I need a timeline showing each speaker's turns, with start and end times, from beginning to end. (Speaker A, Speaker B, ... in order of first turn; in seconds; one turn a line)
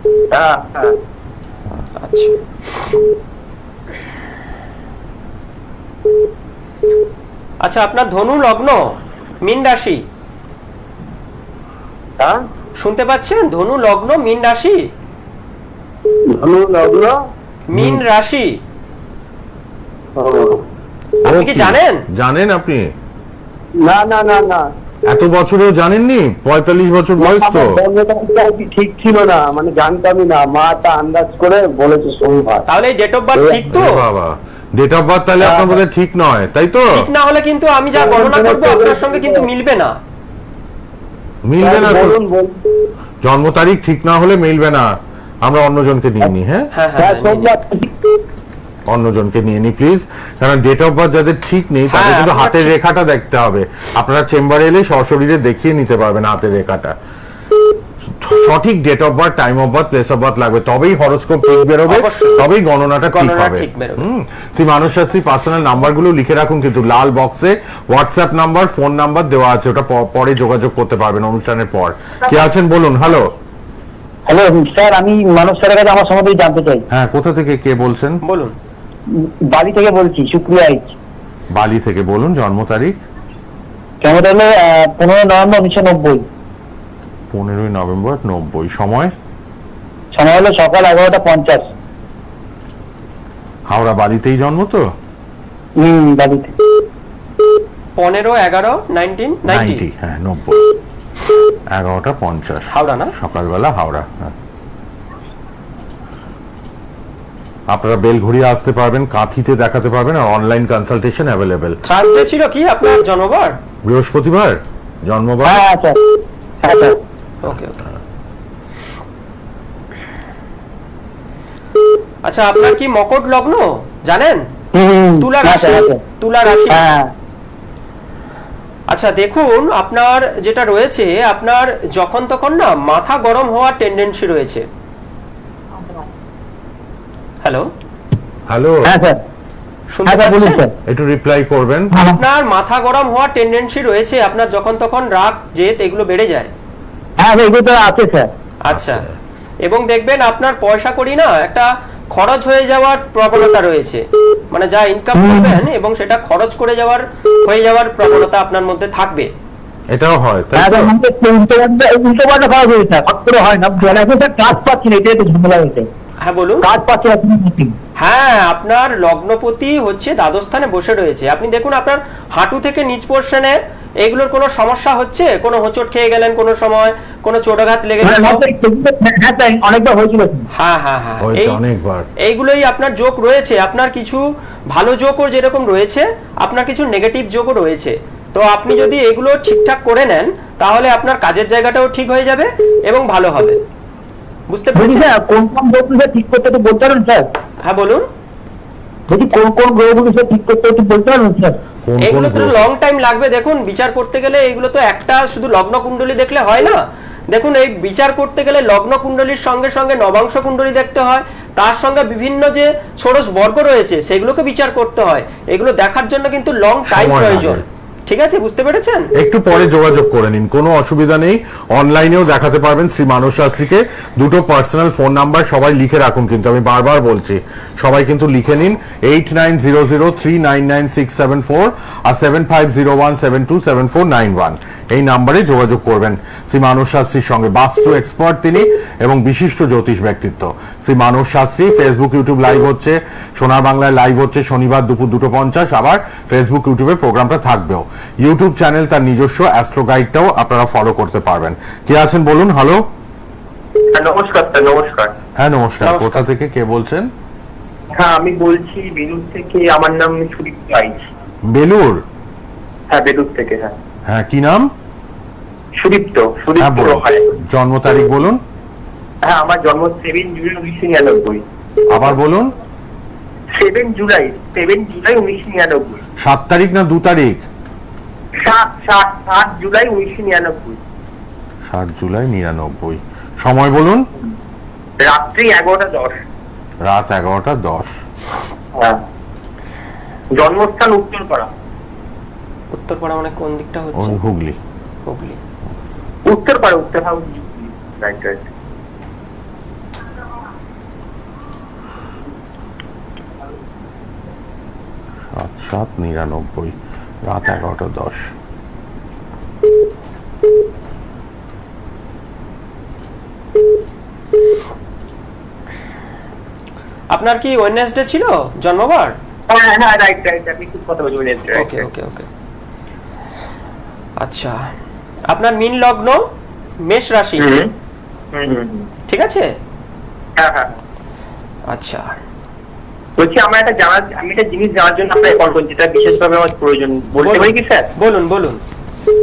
Speaker A: 0.3-0.9
Speaker B: 2.0-2.4
Speaker B: 7.6-10.0
Speaker B: 12.8-14.9
Speaker A: 16.3-17.1
Speaker B: 17.7-18.6
Speaker C: 17.8-18.0
Speaker A: 20.2-20.6
Speaker B: 21.2-22.0
Speaker C: 21.3-22.9
Speaker A: 23.8-24.6
Speaker C: 25.1-27.7
Speaker A: 27.2-32.6
Speaker B: 32.7-34.0
Speaker C: 33.7-37.1
Speaker A: 35.4-35.8
Speaker B: 36.9-40.0
Speaker A: 38.0-39.5
Speaker C: 41.5-42.2
Speaker A: 41.6-42.6
Speaker C: 43.2-46.7
Speaker B: 46.7-47.5
Speaker A: 47.0-47.9
Speaker C: 48.9-57.0
Speaker B: 51.9-52.7
Speaker C: 58.2-73.3
Speaker B: 61.9-62.4
Speaker B: 63.1-64.0
Speaker D: 74.3-76.8
Speaker C: 76.9-78.2
Speaker B: 78.2-78.5
Speaker D: 79.5-80.9
Speaker C: 81.5-83.0
Speaker D: 84.0-86.2
Speaker C: 87.3-89.1
Speaker D: 90.2-91.7
Speaker C: 93.7-94.8
Speaker D: 95.8-96.5
Speaker B: 98.0-99.8
Speaker C: 99.5-100.6
Speaker C: 101.7-104.3
Speaker B: 102.7-103.1
Speaker C: 107.7-111.8
Speaker B: 111.9-113.6
Speaker C: 113.9-115.6
Speaker D: 115.5-116.0
Speaker D: 116.6-117.0
Speaker B: 117.4-117.8
Speaker B: 122.3-124.4
Speaker D: 124.7-126.0
Speaker B: 125.2-126.9
Speaker D: 126.7-127.1
Speaker B: 128.9-134.7
Speaker B: 137.4-137.7
Speaker C: 138.5-138.9
Speaker D: 138.8-139.2
Speaker B: 139.9-140.6
Speaker D: 140.1-140.7
Speaker C: 140.9-141.9
Speaker D: 141.9-142.2
Speaker B: 142.1-146.5
Speaker D: 147.2-148.3
Speaker B: 148.7-149.0
Speaker C: 148.7-149.2
Speaker B: 149.7-159.3
Speaker D: 155.2-155.6
Speaker C: 159.9-160.9
Speaker D: 160.6-165.9
Speaker B: 166.2-166.7
Speaker D: 166.6-167.7
Speaker B: 168.0-178.4
Speaker D: 178.0-180.4
Speaker B: 180.5-181.6
Speaker C: 181.2-182.1
Speaker B: 182.2-193.6
Speaker B: 194.5-195.1
Speaker D: 194.8-197.3
Speaker B: 197.7-198.1
Speaker D: 199.1-201.6
Speaker C: 201.8-202.6
Speaker B: 202.0-219.1
Speaker C: 216.9-217.6
Speaker C: 219.2-252.8
Speaker E: 253.9-255.1
Speaker C: 255.4-257.1
Speaker B: 255.8-256.2
Speaker E: 257.9-261.0
Speaker C: 261.5-262.0
Speaker E: 262.9-263.8
Speaker C: 264.1-264.7
Speaker E: 265.8-267.2
Speaker C: 266.6-268.4
Speaker E: 269.2-271.4
Speaker C: 271.9-272.5
Speaker E: 273.6-276.0
Speaker C: 276.2-277.4
Speaker E: 278.4-280.8
Speaker C: 281.7-284.1
Speaker E: 285.0-286.1
Speaker C: 286.9-287.9
Speaker E: 290.4-291.5
Speaker B: 292.7-294.2
Speaker C: 294.0-294.6
Speaker B: 295.1-295.4
Speaker E: 296.3-298.5
Speaker C: 305.3-306.7
Speaker C: 307.3-308.3
Speaker B: 317.1-319.1
Speaker E: 319.5-321.8
Speaker B: 321.6-322.3
Speaker B: 324.2-324.6
Speaker B: 325.3-326.2
Speaker B: 326.8-327.6
Speaker E: 327.4-327.7
Speaker E: 328.3-328.9
Speaker B: 329.1-329.5
Speaker E: 330.4-330.8
Speaker B: 331.7-332.1
Speaker E: 333.2-337.9
Speaker B: 337.2-338.6